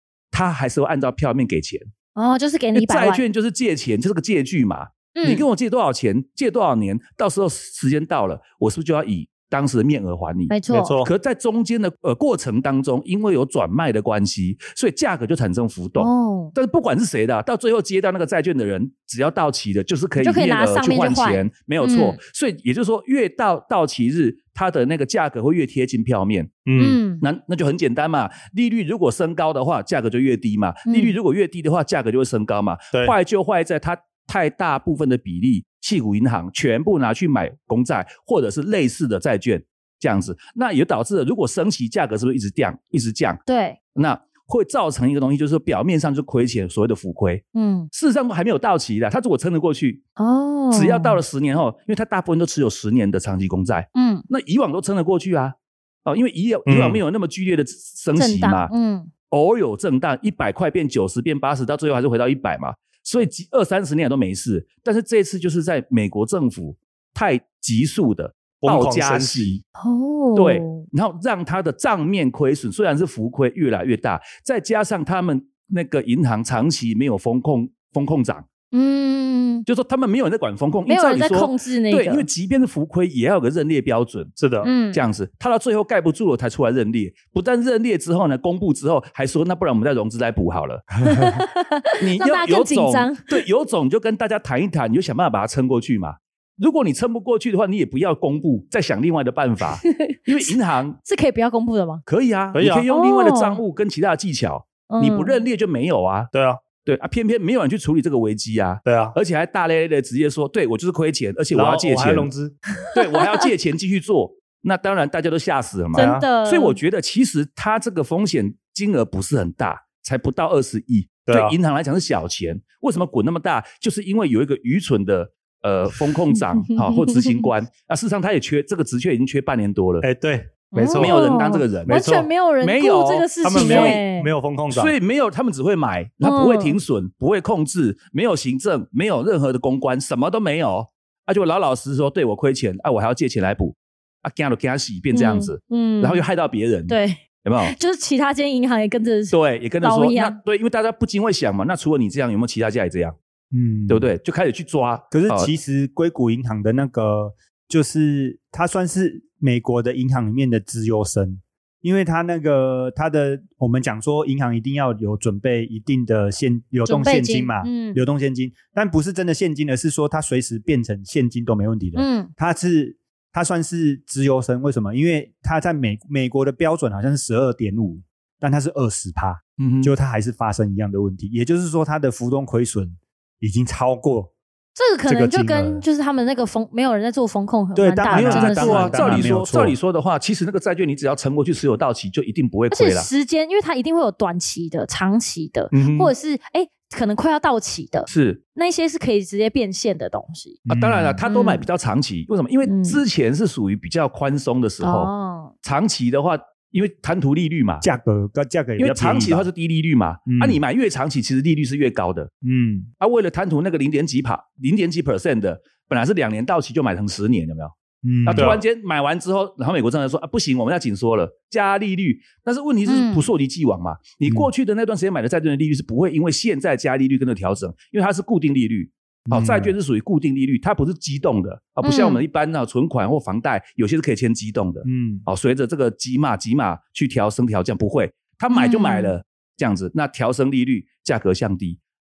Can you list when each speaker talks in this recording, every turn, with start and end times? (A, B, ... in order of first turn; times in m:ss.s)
0:00.3-0:01.9 A
0:02.2-0:03.2 B
0:02.8-0:26.6 A
0:05.2-0:05.4 B
0:10.5-0:11.0 B
0:10.7-0:11.1 C
0:16.0-0:16.6 B
0:20.2-0:22.2 B
0:26.7-0:27.0 C
0:26.8-0:27.2 B
0:27.2-0:43.4 A
0:30.9-0:31.1 B
0:43.5-0:43.8 B
0:44.0-0:50.0 A
0:47.5-0:47.9 B
0:50.2-0:51.2 B
0:50.7-0:58.7 A
0:54.0-0:54.2 B
0:56.7-0:57.0 C
0:58.2-0:59.1 B
0:59.3-1:09.6 A
1:08.6-1:09.6 C
1:09.8-1:10.8 B
1:10.4-1:18.5 A
1:18.7-1:19.7 B
1:19.7-1:24.3 A
1:20.9-1:22.2 B
1:24.4-1:24.7 C
1:24.6-1:25.0 B
1:24.9-1:31.0 A
1:31.1-1:33.4 B
1:32.0-1:41.0 A
1:39.8-1:42.0 B
1:42.1-1:46.3 A
1:42.5-1:42.8 C
1:42.9-1:43.6 B
1:44.9-1:45.4 B
1:46.3-1:46.6 C
1:46.8-1:52.3 A
1:48.8-1:49.2 C
1:51.5-1:52.6 C
1:52.9-2:10.1 A
1:55.9-1:56.3 C
1:55.9-1:56.8 B
2:01.3-2:01.6 C
2:06.6-2:07.5 B
2:10.0-2:11.2 C
2:10.7-2:14.3 B
2:11.0-2:12.0 A
2:11.9-2:12.3 C
2:12.6-2:14.0 A
2:13.4-2:14.9 C
2:14.7-2:27.7 A
2:16.2-2:16.8 B
2:25.1-2:26.2 B
2:26.9-2:30.4 B
2:29.3-2:33.2 A
2:33.5-2:34.1 D
2:33.9-2:35.5 A
2:35.1-3:04.3 D
2:46.9-2:48.0 B
2:52.0-2:52.3 B
2:59.6-2:59.9 A
3:04.8-3:09.3 B
3:05.1-3:05.8 D
3:07.8-3:09.8 D
3:08.1-3:13.1 A
3:12.7-3:20.6 B
3:15.7-3:16.1 A
3:18.1-3:18.4 A
3:20.7-3:21.2 D
3:20.7-3:25.1 A
3:21.3-3:21.6 B
3:22.7-3:23.0 B
3:24.8-3:25.5 B
3:25.6-3:27.8 A
3:27.8-3:29.5 D
3:28.8-3:32.3 A
3:30.3-3:30.6 D
3:32.4-3:32.9 D
3:33.0-3:37.7 A
3:38.0-3:38.6 D
3:38.2-4:01.8 A
3:38.4-3:38.6 C
3:42.9-3:43.3 B
3:49.3-3:49.7 D
3:51.8-3:52.2 B
3:54.8-3:55.3 D
3:58.5-3:59.1 B